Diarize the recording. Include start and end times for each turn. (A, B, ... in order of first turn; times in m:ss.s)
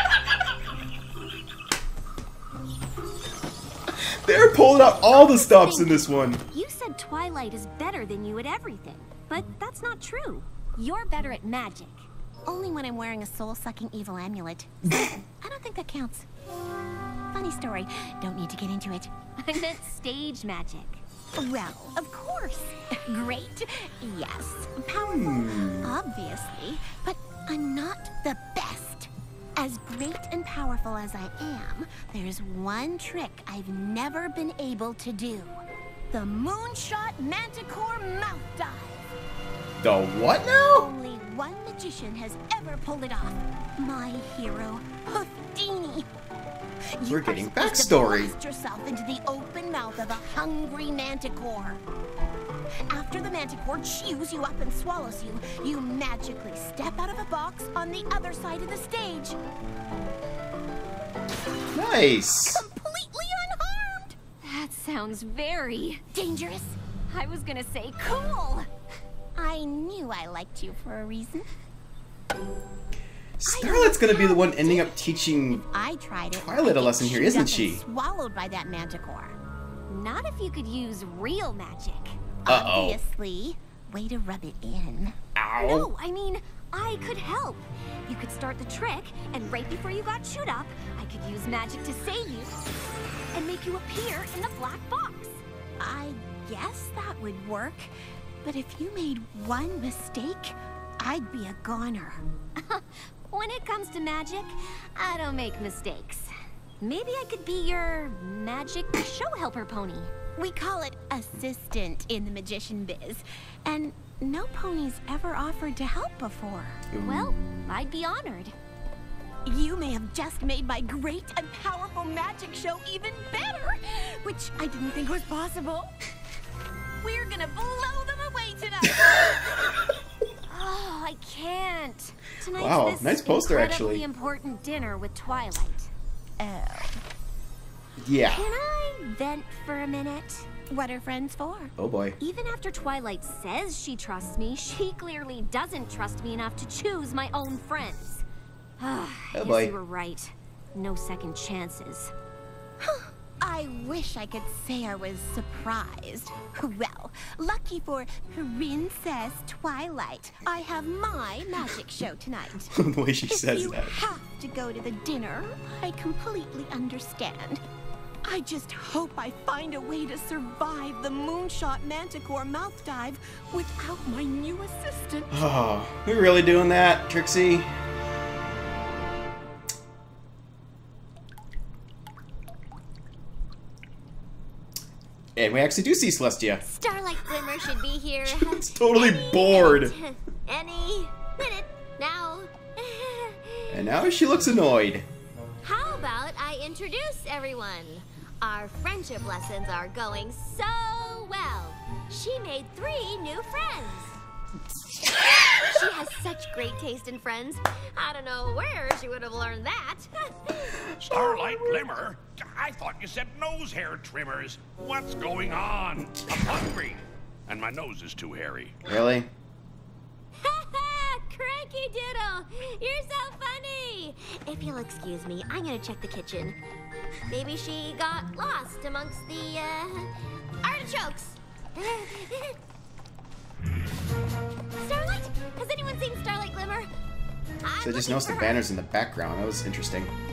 0:03.9-0:06.4 A
0:05.3-0:12.1 B
0:12.4-0:14.8 C
0:15.4-0:16.3 C
0:17.3-0:19.1 C
0:19.4-0:21.0 B
0:21.4-0:39.1 C
0:25.1-0:26.0 A
0:39.8-0:40.9 A
0:40.7-0:46.1 C
0:47.0-0:51.8 C
0:47.0-0:48.3 A
0:52.9-0:59.4 C
1:01.7-1:02.6 A
1:02.5-1:04.2 C
1:04.4-1:06.0 B
1:06.1-1:06.8 C
1:07.1-1:08.7 B
1:09.4-1:11.5 C
1:13.4-1:15.6 A
1:13.5-1:19.4 C
1:16.3-1:17.8 A
1:19.9-1:22.2 B
1:22.4-1:25.2 C
1:22.5-1:23.0 A
1:25.4-1:25.9 A
1:25.6-1:32.6 B
1:33.3-1:35.4 B
1:35.8-1:37.9 C
1:38.4-1:42.3 C
1:42.6-1:50.1 B
1:50.4-1:56.8 C
1:56.9-1:57.8 A
1:57.0-1:58.5 B
1:59.5-2:05.9 C
2:07.0-2:09.6 C
2:10.5-2:15.9 B
2:12.5-2:14.0 A
2:16.4-2:17.0 C
2:18.0-2:18.5 A
2:18.3-2:20.5 B
2:20.7-2:21.7 C
2:21.8-2:22.2 A
2:22.2-2:28.2 B
2:28.8-2:32.1 B
2:29.3-2:29.7 A
2:32.8-2:42.7 C
2:42.7-2:44.1 A
2:43.3-2:47.6 C
2:48.2-2:55.4 C
2:55.3-2:57.7 A
3:05.4-3:06.6 A
3:06.6-3:13.9 D
3:08.2-3:10.0 A
3:13.7-3:15.1 A
3:15.6-3:24.2 D
3:25.5-3:31.4 D
3:31.0-3:38.8 E
3:38.9-3:39.3 A
3:40.4-3:46.6 D
3:47.3-3:50.1 D
3:50.6-3:52.6 D
3:54.8-3:56.9 D
3:57.6-3:58.6 D
3:57.8-4:00.1 A